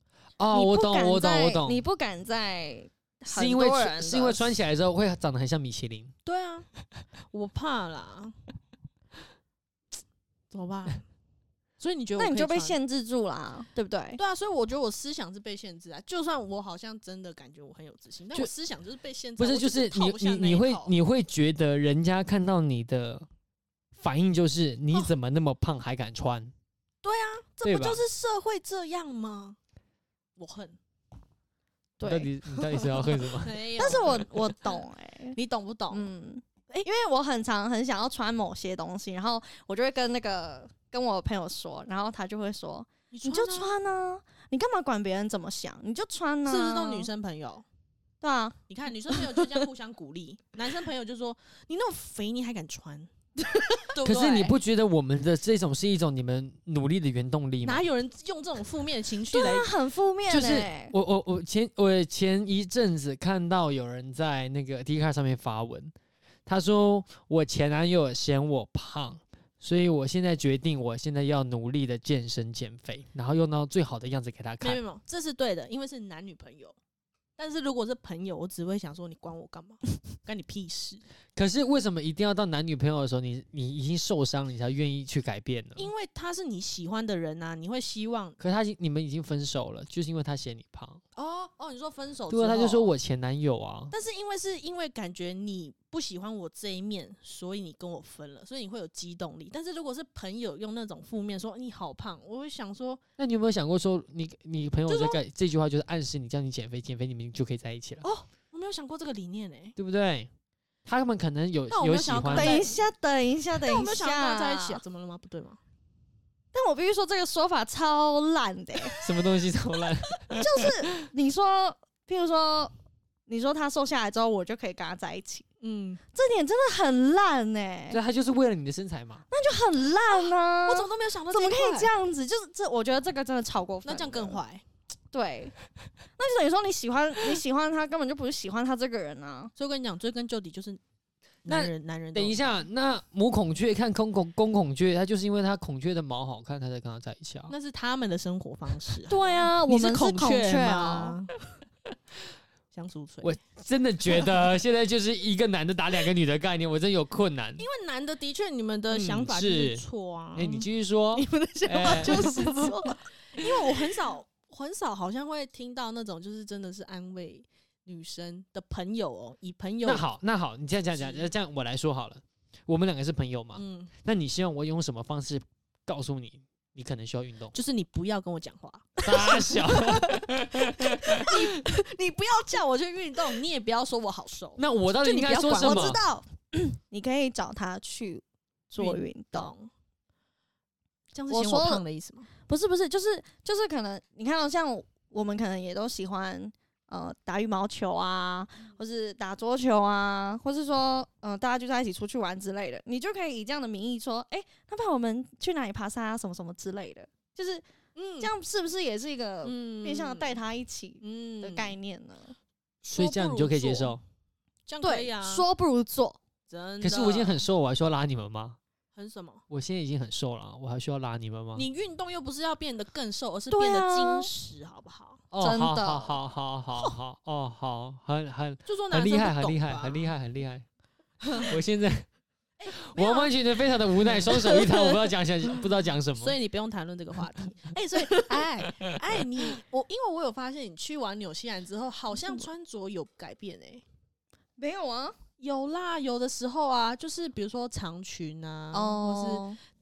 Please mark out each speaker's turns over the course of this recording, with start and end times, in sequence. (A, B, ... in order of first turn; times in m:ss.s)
0:00.4-0:01.8 A
0:00.5-0:04.5 B
0:03.3-0:06.1 A
0:06.2-0:06.7 C
0:07.3-0:08.4 C
0:10.5-0:11.0 C
0:11.8-0:12.8 C
0:12.2-0:14.2 B
0:14.2-0:20.9 C
0:19.4-0:23.3 A
0:23.9-0:26.5 A
0:27.0-0:29.6 C
0:27.6-0:28.0 A
0:30.4-0:30.8 C
0:32.0-0:32.3 B
0:32.0-0:33.9 A
0:33.1-0:34.7 C
0:33.8-0:35.4 B
0:35.4-0:36.1 C
0:35.9-0:47.1 B
0:43.1-0:43.7 C
0:46.4-0:47.6 C
0:48.2-0:49.6 B
0:48.7-0:53.1 C
0:53.4-0:54.0 B
0:53.9-0:54.5 C
0:54.0-0:57.8 A
0:57.6-0:59.7 C
0:59.3-1:00.9 B
1:00.3-1:05.9 A
1:06.4-1:14.8 A
1:14.6-1:16.8 C
1:17.4-1:21.0 C
1:21.4-1:25.9 A
1:25.8-1:28.4 C
1:28.4-1:31.0 A
1:31.1-1:32.9 C
1:32.3-1:33.9 A
1:33.9-1:43.0 C
1:43.2-1:48.0 A
1:44.9-1:45.2 C
1:48.0-1:49.8 C
1:49.8-1:50.3 A
1:50.8-1:52.6 A
1:51.7-1:52.8 C
1:52.3-1:54.8 B
1:53.6-1:55.6 C
1:56.5-1:59.0 B
1:59.0-2:01.1 A
2:00.3-2:02.7 B
2:03.3-2:05.4 B
2:05.6-2:06.0 C
2:06.1-2:08.0 B
2:07.9-2:09.2 A
2:09.3-2:14.4 B
2:10.1-2:11.9 C
2:13.8-2:14.6 C
2:15.1-2:15.5 B
2:16.2-2:19.5 B
2:19.6-2:20.8 C
2:21.4-2:22.5 C
2:21.4-2:27.5 A
2:27.5-2:31.3 C
2:29.1-2:31.2 B
2:32.7-2:33.4 C
2:33.2-2:37.6 A
2:37.6-2:50.0 C
2:38.9-2:39.8 A
2:40.3-2:42.4 A
2:41.8-2:43.0 B
2:49.8-2:57.5 A
2:50.9-2:51.3 C
2:53.5-2:53.9 C
2:57.5-3:00.1 C
2:59.0-3:01.5 A
3:00.8-3:06.0 C
3:04.6-3:06.0 A
3:05.4-3:09.5 B
3:08.8-3:09.7 C
3:11.1-3:12.3 C
3:11.3-3:11.8 B
3:12.5-3:27.6 B
3:27.9-3:28.3 C
3:28.2-3:32.4 B
3:29.4-3:30.4 C
3:31.0-3:31.7 C
3:32.8-3:34.0 C
3:32.9-3:34.0 A
3:34.7-3:35.4 C
3:34.8-3:36.2 B
3:36.5-3:37.4 C
3:36.8-3:38.6 A
3:38.9-3:39.4 C
3:39.5-3:41.6 A
3:41.6-3:45.2 C
3:43.5-3:44.3 B
3:45.3-3:50.6 A
3:45.4-3:46.2 B
3:48.6-3:50.1 C
3:51.3-3:52.1 A
3:52.6-3:53.3 C
3:52.7-3:56.3 A
3:54.0-3:54.5 C
3:56.2-4:03.8 C
3:58.2-3:58.4 B
4:04.6-4:05.2 B
4:05.4-4:09.5 C
4:08.7-4:09.6 B